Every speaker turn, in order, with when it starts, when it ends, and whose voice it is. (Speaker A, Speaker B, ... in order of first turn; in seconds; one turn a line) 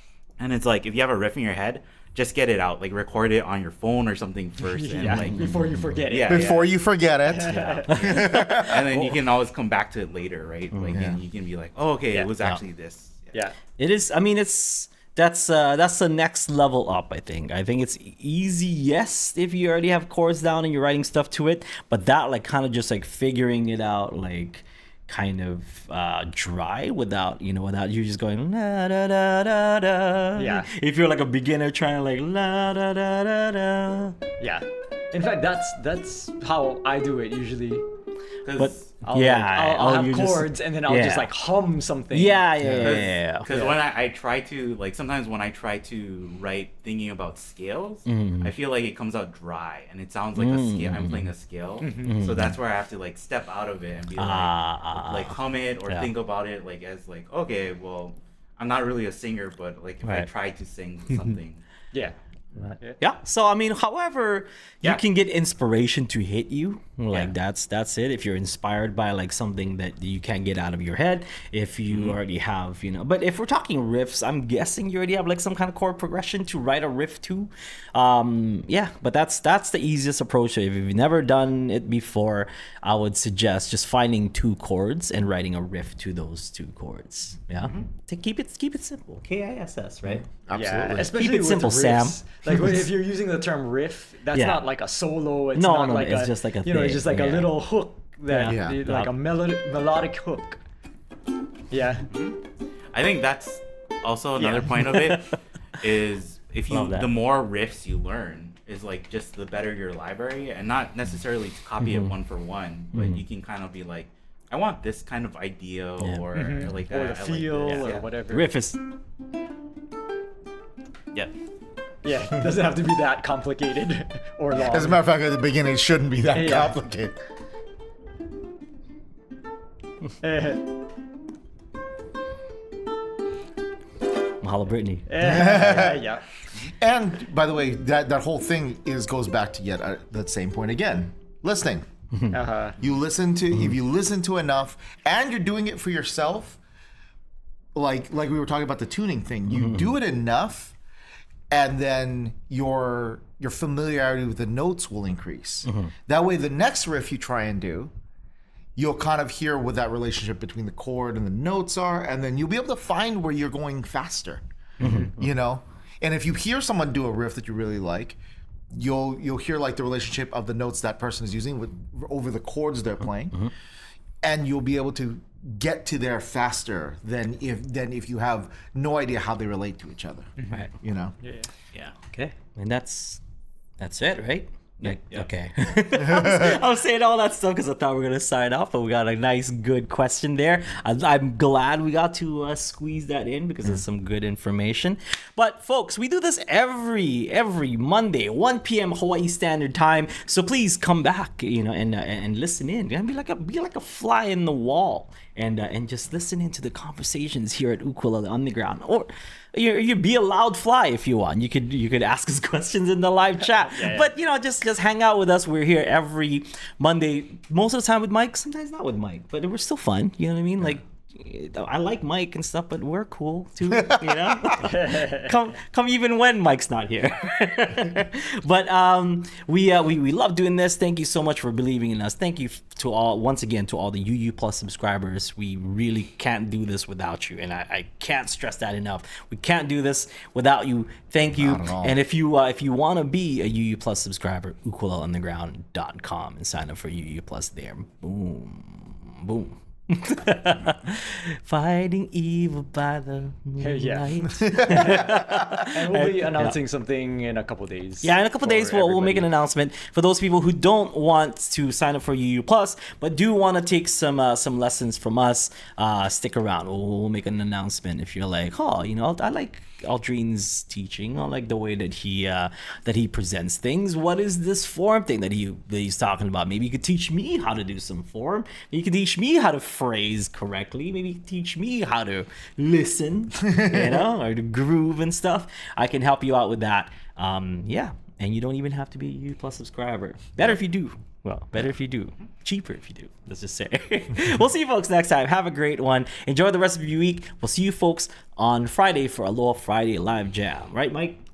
Speaker A: 0.4-6.7
Speaker B: 4.7-6.6
Speaker C: 5.1-6.0
Speaker D: 6.3-8.9
Speaker B: 7.3-8.3
Speaker C: 7.9-9.2
Speaker A: 7.9-13.4
Speaker D: 10.9-11.2
Speaker C: 13.8-34.2
Speaker B: 30.4-30.7
Speaker B: 34.4-37.8
Speaker A: 38.4-39.0
Speaker C: 38.6-41.3
Speaker B: 39.0-42.5
Speaker C: 42.1-43.5
Speaker D: 42.6-43.0
Speaker A: 42.8-61.6
Speaker B: 43.5-43.8
Speaker C: 48.1-48.5
Speaker C: 50.4-51.3
Speaker B: 51.8-52.2
Speaker C: 52.0-52.5
Speaker C: 54.2-56.1
Speaker C: 62.5-90.3
Speaker A: 71.9-72.2
Speaker D: 90.0-91.1
Speaker B: 90.5-100.6
Speaker C: 91.1-92.2
Speaker C: 94.3-94.7
Speaker C: 95.5-97.5
Speaker C: 98.3-99.1
Speaker D: 98.5-98.8
Speaker B: 101.7-102.1
Speaker A: 102.1-102.4
Speaker A: 102.9-118.1
Speaker B: 104.4-104.8
Speaker C: 104.8-105.3
Speaker C: 106.7-107.1
Speaker C: 111.8-112.1
Speaker C: 112.9-113.2
Speaker B: 116.3-118.5
Speaker C: 117.7-118.8
Speaker B: 122.0-125.0
Speaker D: 124.6-127.2
Speaker B: 126.3-126.8
Speaker B: 130.2-130.6
Speaker C: 134.4-135.6
Speaker B: 135.1-136.2
Speaker D: 135.2-141.9
Speaker B: 142.3-142.8
Speaker D: 142.8-146.6
Speaker D: 147.8-150.8
Speaker C: 149.5-149.9
Speaker D: 151.5-157.9
Speaker C: 155.7-155.9
Speaker D: 158.8-168.2
Speaker C: 164.8-165.2
Speaker D: 168.7-173.4
Speaker D: 174.2-181.2
Speaker B: 181.2-181.5
Speaker C: 182.1-183.2
Speaker C: 183.8-256.6
Speaker A: 184.9-185.2
Speaker D: 186.1-186.6
Speaker B: 213.7-214.1
Speaker D: 223.7-224.6
Speaker B: 224.6-225.3
Speaker D: 241.3-242.0
Speaker B: 253.6-259.3
Speaker D: 254.3-255.6
Speaker C: 258.0-301.2
Speaker D: 283.4-284.0